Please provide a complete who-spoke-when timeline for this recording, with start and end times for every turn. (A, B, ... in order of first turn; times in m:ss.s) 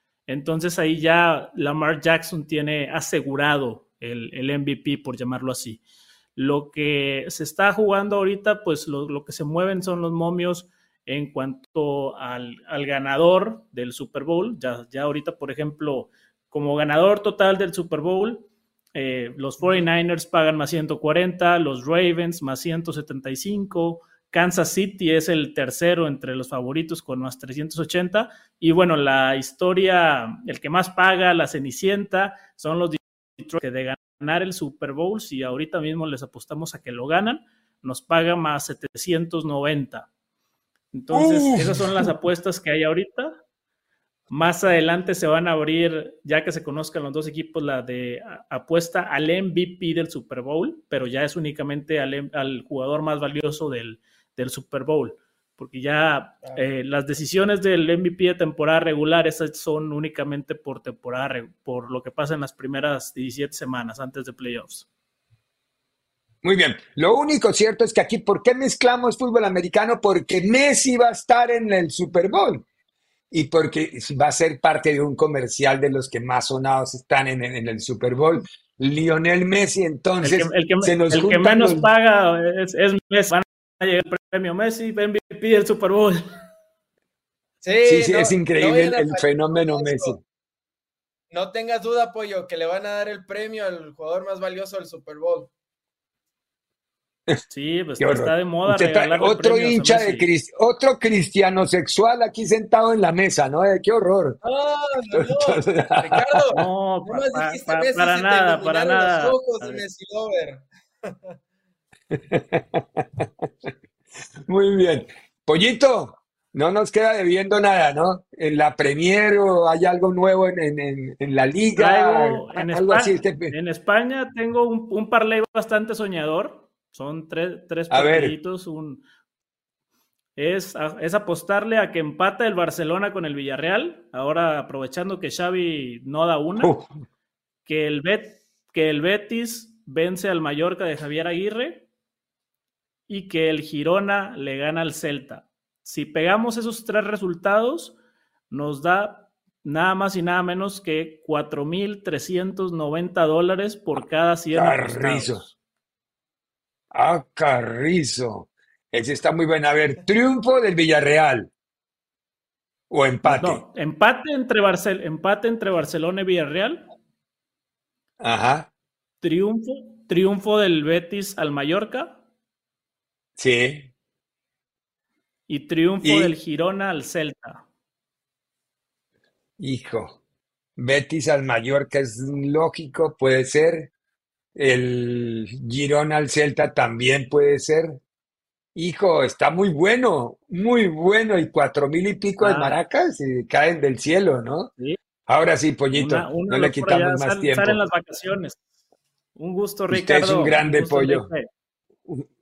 0:00.3-0:05.8 A
0:06.4-0:40.1 A
0:40.9-0:43.4 A
0:41.1-0:42.1 B
0:44.3-1:04.9 A
1:06.4-1:12.6 B
1:13.3-1:21.9 B
1:20.2-1:26.3 A
1:27.6-1:30.1 C
1:27.8-1:30.2 B
1:31.3-1:35.5 C
1:37.5-1:40.3 A
1:38.0-1:44.4 B
1:44.4-1:51.3 C
1:45.1-1:46.2 B
1:46.5-1:49.8 A
1:52.1-1:53.2 B
1:54.5-2:03.5 B
2:01.8-2:09.0 A
2:07.9-2:08.3 B
2:10.4-2:16.7 A
2:16.6-2:16.9 B
2:17.6-2:21.9 A
2:23.1-2:28.0 A
2:28.5-2:35.5 A
2:34.5-2:35.4 B
2:36.9-2:41.5 B
2:42.9-2:43.6 B
2:43.2-2:46.8 A
2:48.2-2:48.7 B
2:49.2-2:52.2 A
2:53.4-2:53.9 B
2:55.5-2:57.6 A
2:56.0-2:56.3 B
2:59.6-3:00.2 B
3:00.8-3:03.9 B
3:04.5-3:08.0 B
3:08.7-3:14.7 B
3:12.4-3:12.8 A
3:15.3-3:17.8 B
3:15.9-3:18.6 A
3:19.4-3:21.5 A
3:19.9-3:21.3 B